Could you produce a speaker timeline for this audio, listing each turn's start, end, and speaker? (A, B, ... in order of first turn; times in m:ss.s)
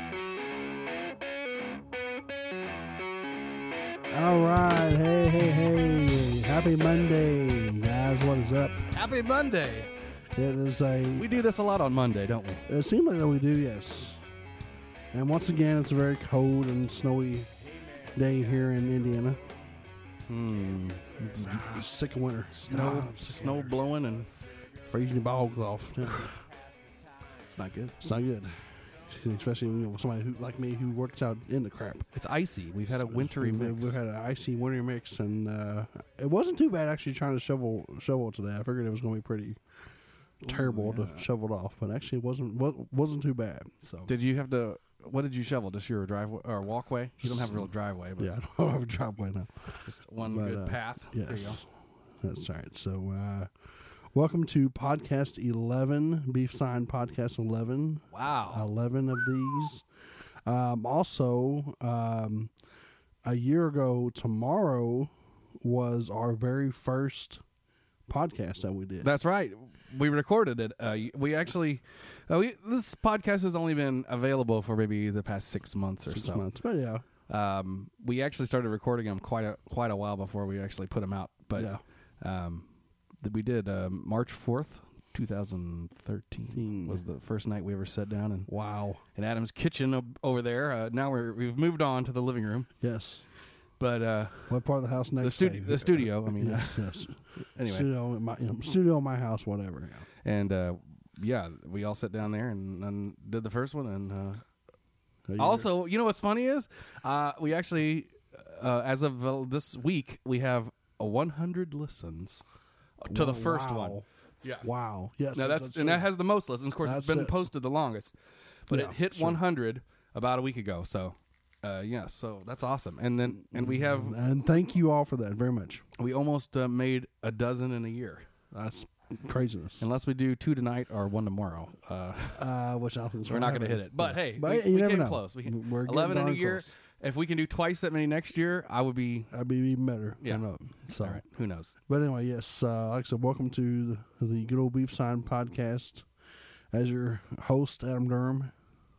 0:04.1-0:08.9 A
0:08.9-0:09.9 B
0:10.4-0:11.3 A
0:11.2-0:12.6 B
0:12.7-0:14.2 A
0:15.1-0:17.5 A
0:18.1-0:19.4 A
0:20.3-0:21.8 B
0:21.3-0:23.7 A
0:22.6-0:24.3 B
0:24.8-0:26.4 A
0:26.0-0:26.3 B
0:27.4-0:28.0 B
0:28.0-0:32.1 A
0:32.1-0:34.0 B
0:32.9-0:39.6 A
0:40.4-0:44.1 A
0:40.4-0:41.2 B
0:44.1-0:48.3 B
0:47.2-0:51.6 A
0:49.8-0:51.6 B
0:52.2-0:53.5 A
0:54.1-0:59.8 A
0:58.1-0:58.6 B
1:00.4-1:02.5 A
1:03.2-1:07.4 A
1:08.1-1:09.1 A
1:09.0-1:16.4 B
1:16.1-1:17.0 A
1:17.3-1:22.7 B
1:21.5-1:21.8 A
1:23.2-1:28.5 B
1:26.5-1:27.0 A
1:28.5-1:29.0 A
1:29.1-1:32.7 B
1:32.8-1:33.2 A
1:33.8-1:34.6 B
1:34.5-1:40.1 A
1:35.2-1:36.9 B
1:37.6-1:37.9 B
1:40.2-1:44.4 B
1:45.3-1:45.7 A
1:45.4-1:52.4 B
1:53.0-1:54.6 B
1:53.1-1:54.0 A
1:54.6-1:56.1 A
1:55.3-1:58.1 B
1:56.8-1:57.4 A
1:58.7-2:04.2 B
1:58.7-1:59.4 A
2:03.3-2:05.8 A
2:06.0-2:08.3 B
2:08.5-2:09.8 A
2:09.8-2:12.4 B
2:12.3-2:16.7 A
2:13.2-2:19.3 B
2:19.3-2:21.2 A
2:21.0-2:21.7 B
2:21.9-2:26.0 A
2:26.7-2:28.5 A